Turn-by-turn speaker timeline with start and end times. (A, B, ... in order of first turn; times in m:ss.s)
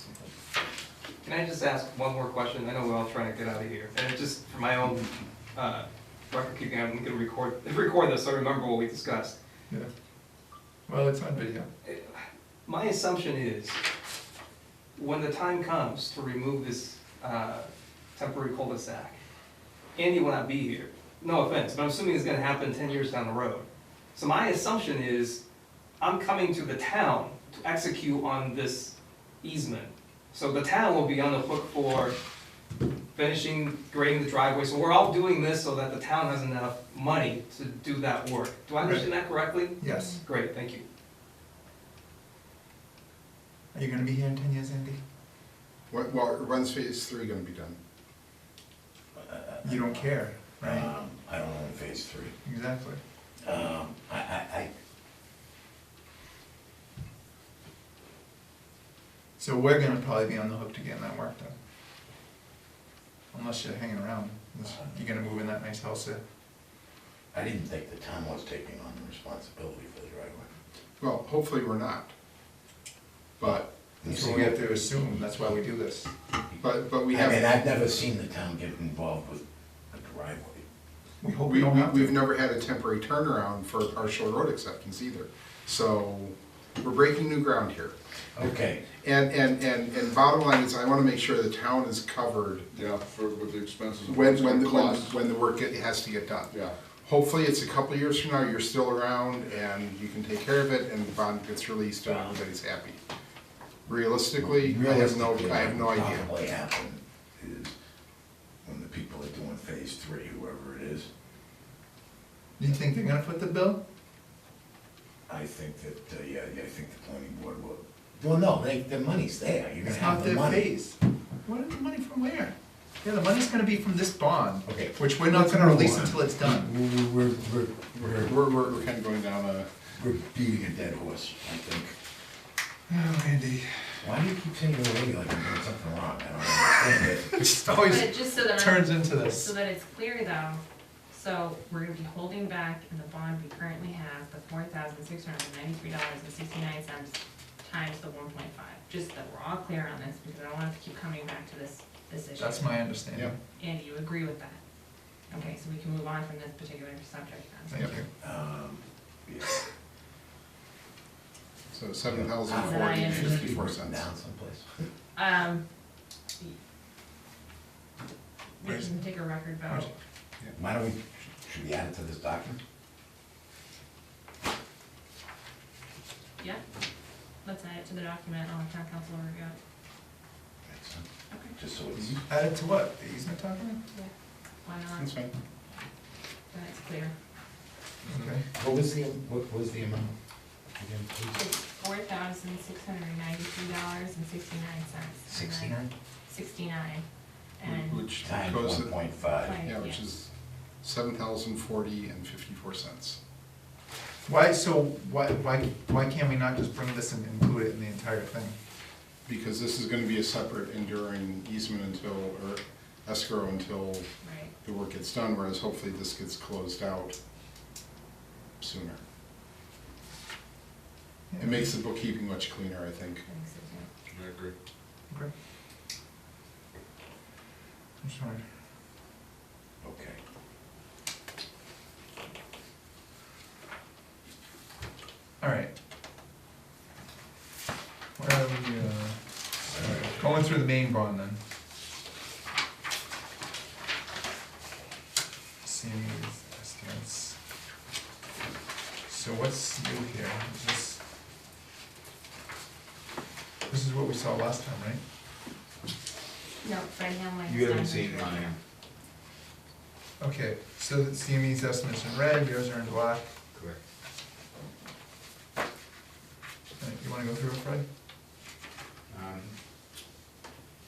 0:01.2-0:09.4 A
0:10.9-0:11.7 B
0:11.8-0:13.8 A
0:15.0-0:19.2 A
0:20.0-0:25.4 A
0:26.0-0:32.2 A
0:33.1-0:40.8 A
0:38.8-0:39.1 B
0:39.8-0:40.2 B
0:39.9-0:40.2 C
0:43.7-0:45.0 B
0:45.9-0:47.8 D
0:49.1-0:52.3 E
0:49.6-0:50.9 B
0:52.4-0:53.0 B
0:53.4-0:54.7 E
0:59.4-1:01.5 B
1:03.3-1:06.2 B
1:07.3-1:10.5 E
1:11.0-1:12.1 D
1:13.4-1:13.7 D
1:14.0-1:15.4 E
1:14.0-1:16.1 B
1:16.6-1:17.4 D
1:17.0-1:20.6 E
1:21.2-1:22.2 B
1:21.4-1:27.9 D
1:28.3-1:28.9 E
1:29.0-1:32.7 D
1:32.7-1:35.2 F
1:34.1-1:43.0 D
1:36.5-1:36.8 F
1:42.0-1:42.4 E
1:43.8-1:46.3 D
1:44.4-1:47.7 E
1:48.6-1:51.1 E
1:52.6-1:53.8 B
1:55.3-2:00.7 E
1:59.8-2:06.7 B
2:04.6-2:08.3 E
2:07.9-2:09.7 D
2:10.0-2:11.9 E
2:12.9-2:13.7 B
2:14.0-2:17.4 E
2:17.3-2:19.5 B
2:17.8-2:33.0 C
2:32.4-2:33.4 B
2:33.6-2:34.6 C
2:35.3-2:38.0 C
2:37.7-2:38.0 B
2:38.2-2:39.6 E
2:41.7-2:44.1 D
2:42.0-2:44.6 E
2:42.6-2:43.6 C
2:45.1-2:45.6 C
2:48.6-2:49.9 C
2:50.5-2:52.6 E
2:57.4-2:59.6 C
3:00.7-3:02.2 E
3:01.3-3:01.5 C
3:02.3-3:03.8 B
3:04.6-3:05.1 C
3:05.0-3:05.3 D
3:06.5-3:07.1 C
3:08.0-3:08.4 B
3:08.6-3:10.1 E
3:10.8-3:11.4 E
3:11.3-3:17.0 C
3:15.3-3:15.7 E
3:15.6-3:15.9 B
3:17.6-3:18.0 C
3:17.6-3:20.3 D
3:18.2-3:19.6 E
3:19.4-3:20.0 C
3:20.8-3:23.2 D
3:24.2-3:28.5 B
3:29.2-3:34.1 D
3:34.2-3:34.5 C
3:34.6-3:37.1 D
3:38.6-3:39.0 D
3:41.3-3:41.7 B
3:41.4-3:43.2 D
3:43.2-3:43.9 C
3:44.1-3:44.5 F
3:48.0-3:48.4 B
3:49.8-3:50.2 E
3:55.4-3:55.7 B
3:58.2-3:59.2 B
3:59.8-4:01.4 B
3:59.8-4:00.0 E
4:05.6-4:07.4 B
4:09.1-4:11.0 B
4:13.7-4:15.0 B
4:16.6-4:18.5 C
4:17.4-4:18.6 G
4:20.2-4:23.3 B
4:23.5-4:23.8 G
4:26.8-4:27.8 B
4:29.1-4:29.7 G